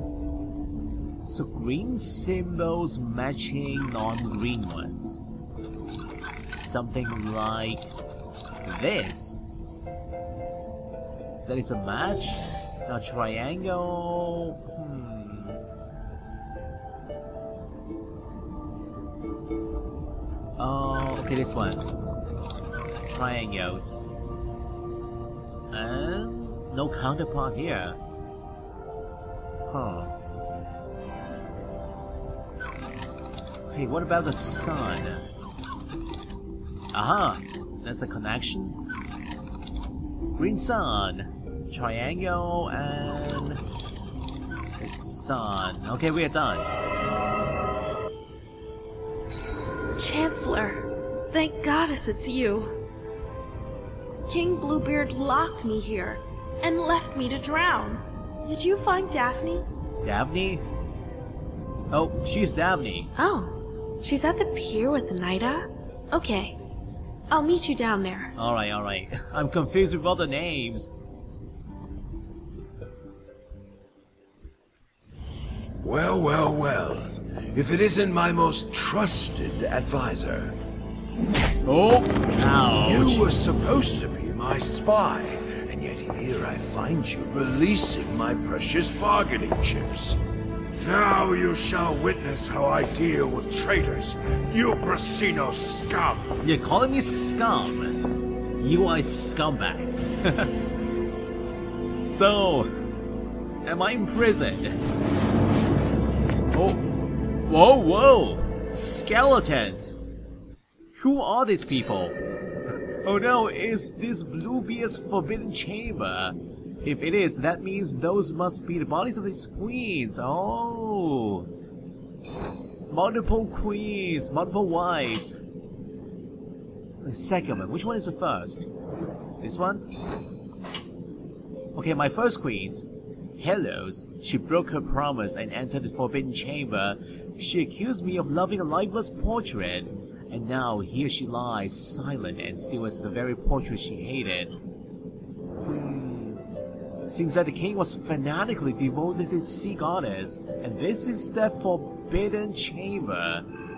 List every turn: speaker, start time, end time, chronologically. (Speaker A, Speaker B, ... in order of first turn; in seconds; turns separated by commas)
Speaker A: 1.2-5.2, Speaker A: 6.5-7.9, Speaker A: 8.6-9.4, Speaker A: 11.4-15.6, Speaker A: 20.6-21.9, Speaker A: 23.0-24.0, Speaker A: 25.7-28.0, Speaker A: 29.7-30.1, Speaker A: 33.7-35.3, Speaker A: 36.9-38.8, Speaker A: 40.3-43.6, Speaker A: 44.8-46.7, Speaker B: 50.0-52.7, Speaker B: 54.3-59.6, Speaker A: 60.0-60.6, Speaker A: 61.9-63.1, Speaker B: 63.2-66.6, Speaker B: 67.3-68.3, Speaker A: 68.3-70.9, Speaker C: 75.8-80.5, Speaker A: 81.6-83.3, Speaker C: 82.8-90.2, Speaker C: 90.8-96.3, Speaker A: 96.4-98.0, Speaker A: 98.6-100.5, Speaker A: 102.1-102.7, Speaker A: 103.6-104.8, Speaker A: 106.5-110.0, Speaker A: 111.0-112.2, Speaker A: 113.0-121.5, Speaker A: 122.9-125.4, Speaker A: 127.0-128.7, Speaker A: 129.4-129.8, Speaker A: 131.7-144.6, Speaker A: 145.6-146.4, Speaker A: 147.0-153.5